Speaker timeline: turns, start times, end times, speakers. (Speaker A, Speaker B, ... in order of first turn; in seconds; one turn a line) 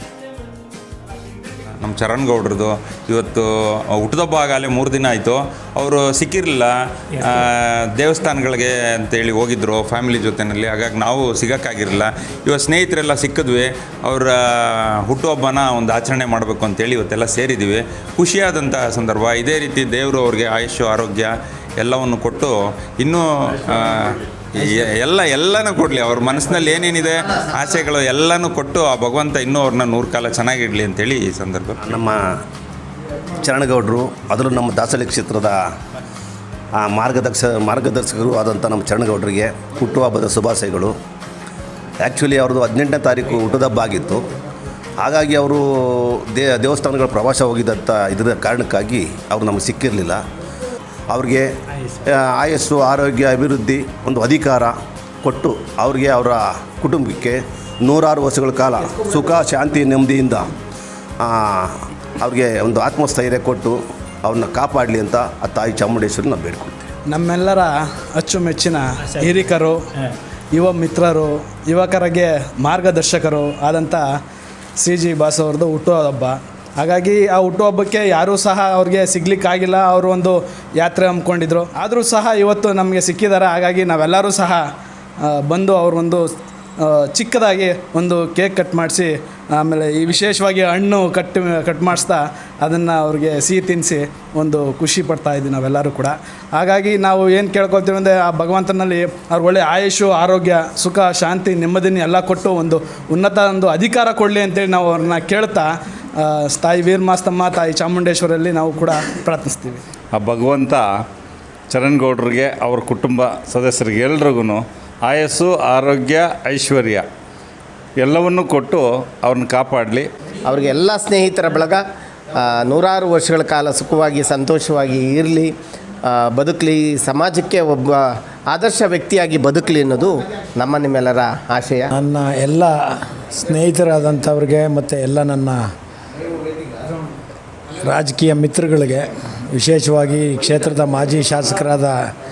Speaker A: 1.8-31.8
Speaker B: 31.8-32.3
Speaker B: 33.4-35.6
Speaker B: 36.8-41.0
Speaker B: 42.0-44.3
Speaker B: 45.0-50.2
Speaker B: 51.1-51.5
Speaker B: 52.0-60.5
Speaker B: 61.2-66.9
Speaker C: 67.1-69.8
Speaker C: 70.5-74.1
Speaker C: 74.8-84.7
Speaker C: 85.2-86.3
Speaker C: 86.8-109.8
Speaker D: 110.1-111.0
Speaker D: 111.7-117.1
Speaker D: 118.0-120.1
Speaker E: 120.5-121.8
Speaker E: 122.3-125.5
Speaker E: 126.0-131.9
Speaker F: 131.9-135.6
Speaker F: 137.8-142.0